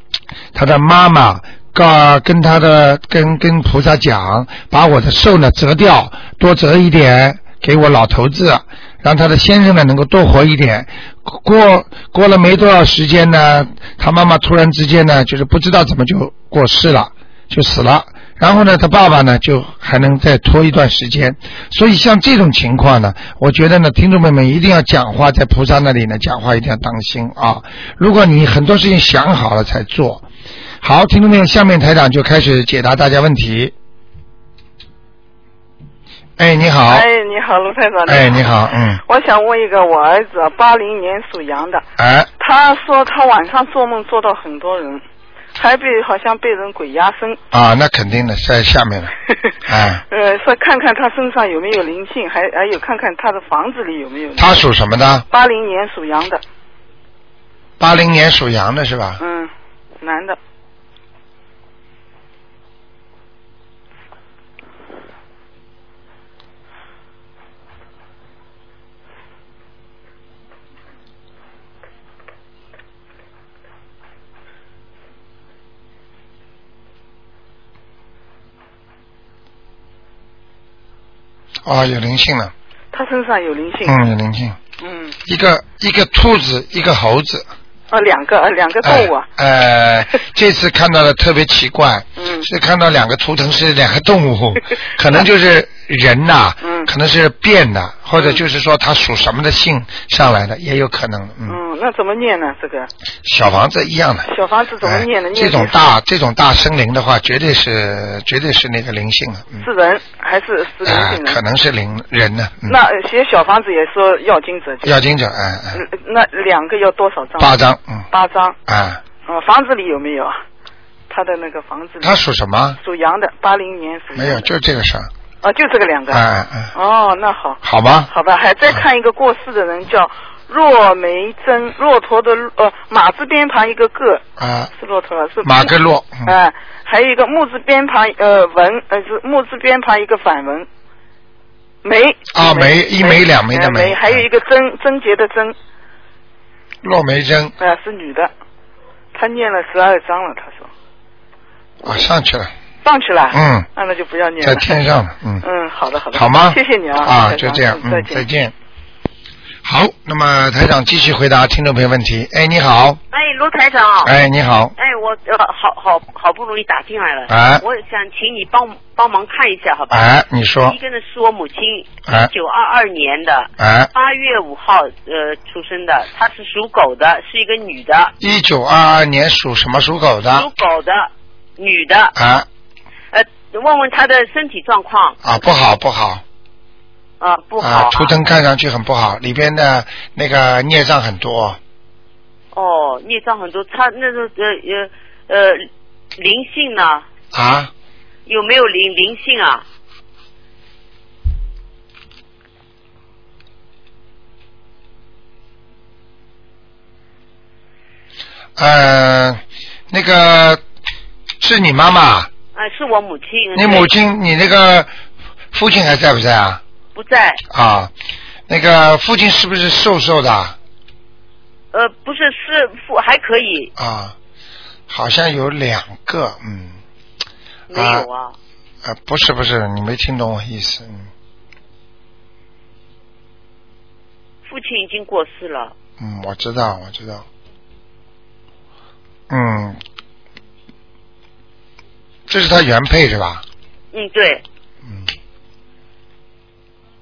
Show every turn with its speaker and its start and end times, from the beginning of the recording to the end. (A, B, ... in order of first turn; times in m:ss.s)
0:00.5-0:30.2 A
0:30.8-0:33.7 A
0:36.4-0:37.1 A
0:36.9-0:38.4 B
0:38.1-0:39.0 A
0:39.1-0:41.8 B
0:42.0-0:42.3 A
0:42.4-0:45.0 B
0:45.6-0:47.4 B
0:47.5-0:49.1 A
0:49.6-0:50.0 A
0:50.1-0:54.5 B
0:54.4-0:55.2 A
0:55.3-0:56.4 B
0:57.8-0:59.2 A
0:59.2-1:00.4 B
1:21.6-1:22.5 A
1:22.9-1:24.0 B
1:23.8-1:24.6 A
1:24.8-1:25.2 B
1:25.3-1:27.5 A
1:27.9-1:29.3 B
1:28.8-1:41.6 A
1:32.2-1:32.5 B
1:36.6-1:36.9 B
1:41.5-1:42.9 B
1:43.2-1:44.3 A
1:44.3-1:45.8 B
1:44.8-1:49.7 A
1:49.6-1:51.4 B
1:50.8-1:52.8 A
1:52.7-1:55.0 B
1:54.8-1:55.8 A
1:55.7-1:57.6 B
1:57.4-1:58.1 A
1:58.1-1:58.6 B
1:58.7-1:59.0 A
1:59.3-2:00.4 B
2:01.1-2:02.2 B
2:02.0-2:02.8 A
2:02.8-2:04.5 B
2:04.2-2:05.1 A
2:05.4-2:06.2 B
2:06.1-2:06.7 A
2:06.7-2:14.2 B
2:07.6-2:08.1 A
2:14.4-2:14.7 A
2:14.8-2:15.7 B
2:15.4-2:16.3 A
2:16.2-2:20.7 B
2:21.8-2:25.6 B
2:22.3-2:24.2 A
2:26.8-2:27.6 A
2:27.6-2:28.3 B
2:29.1-2:30.7 B
2:31.8-2:32.5 A
2:32.8-2:34.7 B
2:33.3-2:33.7 A
2:34.4-2:35.4 A
2:35.4-2:38.3 B
2:36.1-2:38.5 A
2:39.6-2:43.0 A
2:43.1-2:44.1 C
2:44.0-2:44.7 A
2:44.8-2:50.1 C
2:47.3-2:47.6 A
2:49.9-2:50.8 A
2:50.6-2:58.1 C
2:53.6-2:53.9 A
2:58.2-3:00.5 A
3:00.3-3:02.1 C
3:02.2-3:02.5 A
3:03.1-3:05.2 C
3:05.2-3:06.2 A
3:07.2-3:08.1 C
3:07.6-3:11.6 A
3:12.5-3:17.1 C
3:17.3-3:17.7 A
3:18.3-3:19.6 C
3:28.6-3:30.6 A
3:31.4-3:32.3 A
3:32.5-3:33.9 C
3:33.6-3:34.9 A
3:35.5-3:36.6 A
3:37.0-3:37.4 C
3:37.5-3:37.9 A
3:38.5-3:40.6 A
3:41.7-3:43.7 C
3:43.8-3:44.2 A
3:44.9-3:46.8 A
3:47.7-3:48.4 C
3:47.8-3:48.1 A
3:48.8-3:51.1 A
3:54.4-3:55.8 C
3:56.0-3:57.2 A
3:59.3-3:59.8 A
4:02.3-4:03.4 A
4:03.9-4:04.4 C